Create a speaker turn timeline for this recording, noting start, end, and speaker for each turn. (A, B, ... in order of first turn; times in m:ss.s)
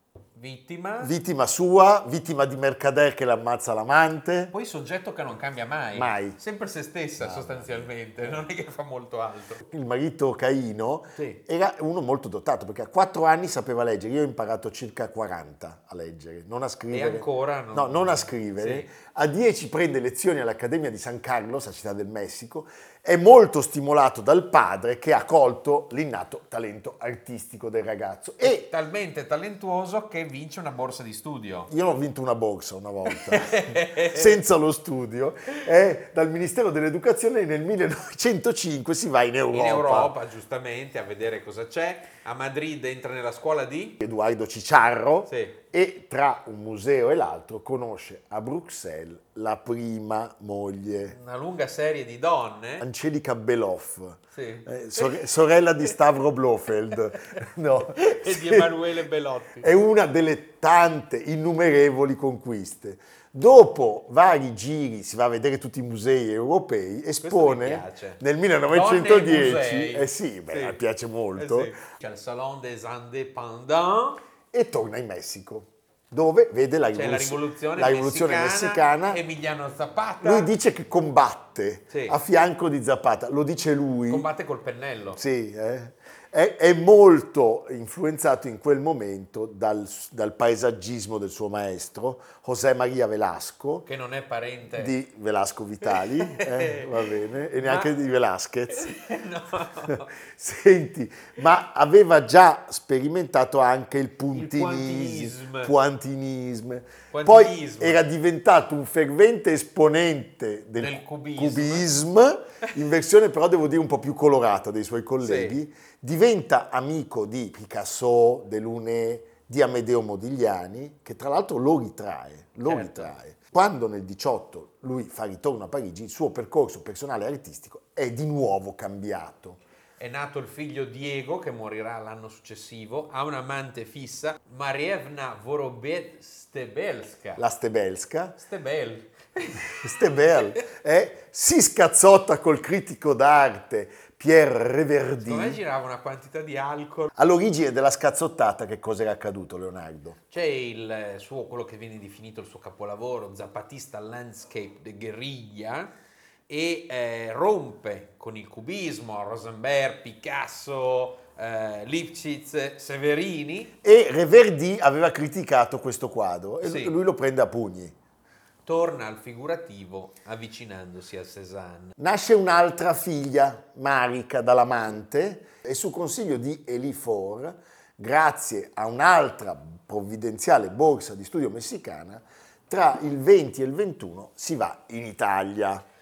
0:00.3-0:01.2 A
0:01.0-0:04.5 B
0:04.5-0:09.6 A
0:05.9-0:06.4 B
0:07.2-0:08.4 B
0:09.6-0:28.7 B
0:11.1-0:11.4 A
0:16.9-0:18.9 A
0:28.4-0:31.7 A
0:31.7-0:40.1 B
0:33.0-0:34.4 A
0:39.5-0:44.0 A
0:44.0-0:51.2 B
0:45.3-0:45.6 A
0:51.1-0:52.8 A
0:52.8-0:58.8 B
0:54.3-0:55.2 A
0:57.9-0:59.7 A
0:59.6-1:11.7 B
1:07.2-1:10.8 A
1:11.3-1:14.2 A
1:14.5-1:19.2 B
1:16.9-1:20.5 A
1:20.2-1:24.2 B
1:21.9-1:22.2 A
1:24.1-1:25.2 A
1:25.2-1:33.8 B
1:33.8-1:34.9 A
1:34.7-1:38.9 B
1:35.9-1:37.9 A
1:38.7-1:40.1 A
1:39.9-2:09.6 B
1:44.3-1:45.7 A
1:47.1-1:48.0 A
1:50.8-1:51.9 A
1:55.2-1:55.6 A
2:02.6-2:03.1 A
2:10.0-2:17.4 A
2:17.4-2:18.4 B
2:18.4-2:20.6 A
2:19.6-2:25.6 B
2:25.2-2:27.1 A
2:27.1-2:30.2 B
2:30.3-2:35.9 A
2:36.5-2:43.7 A
2:43.8-2:47.9 B
2:46.6-2:46.9 A
2:48.6-2:52.0 A
2:52.0-3:05.8 B